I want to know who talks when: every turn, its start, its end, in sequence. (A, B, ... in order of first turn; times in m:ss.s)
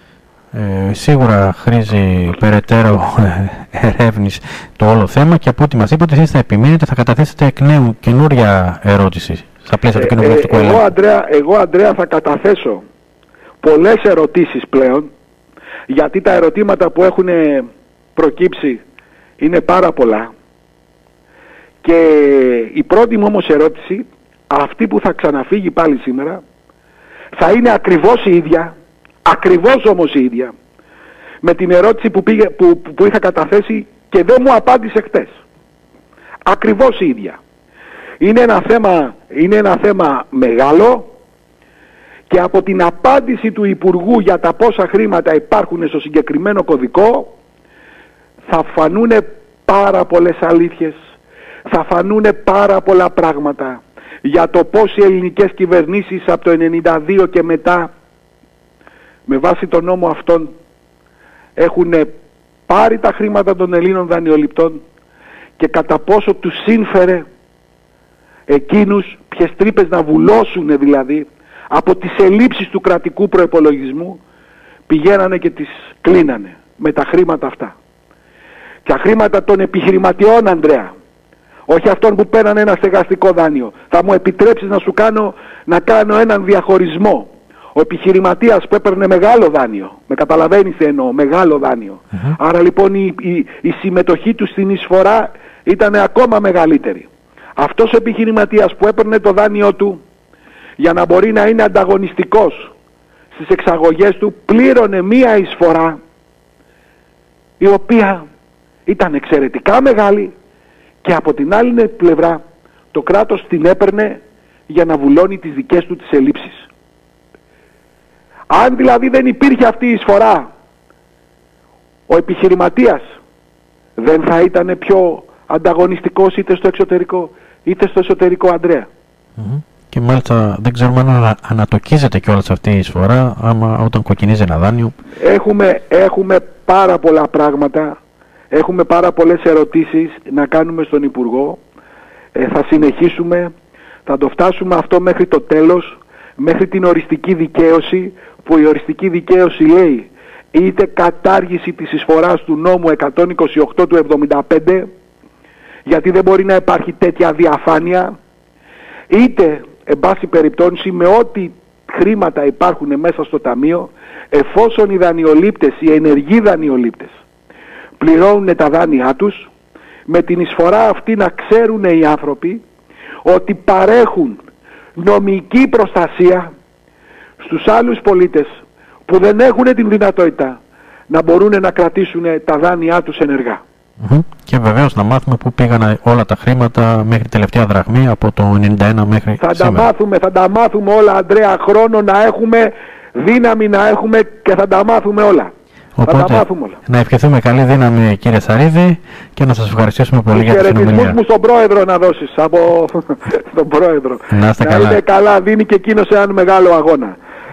0:00.5-0:10.9 A
0:09.9-0:12.8 B
0:13.6-0:15.1 B
0:15.9-0:18.8 B
0:19.4-0:20.3 B
0:21.8-0:26.4 B
0:27.4-0:30.5 B
0:31.4-0:35.4 B
0:36.4-0:37.4 B
0:38.2-0:41.1 B
0:42.3-0:47.4 B
0:48.4-0:51.0 B
0:51.7-0:57.9 B
0:59.2-1:00.5 B
1:01.6-1:02.1 B
1:02.7-1:04.8 B
1:05.6-1:07.3 B
1:08.5-1:14.2 B
1:14.9-1:17.7 B
1:18.8-1:20.9 B
1:21.7-1:40.0 B
1:40.8-1:42.7 B
1:43.3-1:46.0 B
1:47.6-1:48.2 B
1:48.9-1:50.4 B
1:51.0-1:52.4 B
1:52.9-1:56.7 B
1:58.5-2:00.5 B
2:02.1-2:03.1 B
2:04.0-2:08.9 B
2:09.4-2:14.9 A
2:15.2-2:18.0 B
2:18.5-2:21.6 B
2:22.3-2:23.5 B
2:24.1-2:34.9 B
2:35.9-2:38.1 B
2:39.1-2:47.1 B
2:48.0-2:49.5 B
2:50.1-2:52.6 B
2:53.2-2:54.4 B
2:55.0-2:56.5 B
2:57.4-3:03.6 B
3:04.0-3:09.9 A
3:09.4-3:15.5 B
3:16.0-3:21.2 A
3:16.0-3:16.8 B
3:20.3-3:27.2 B
3:24.3-3:25.0 A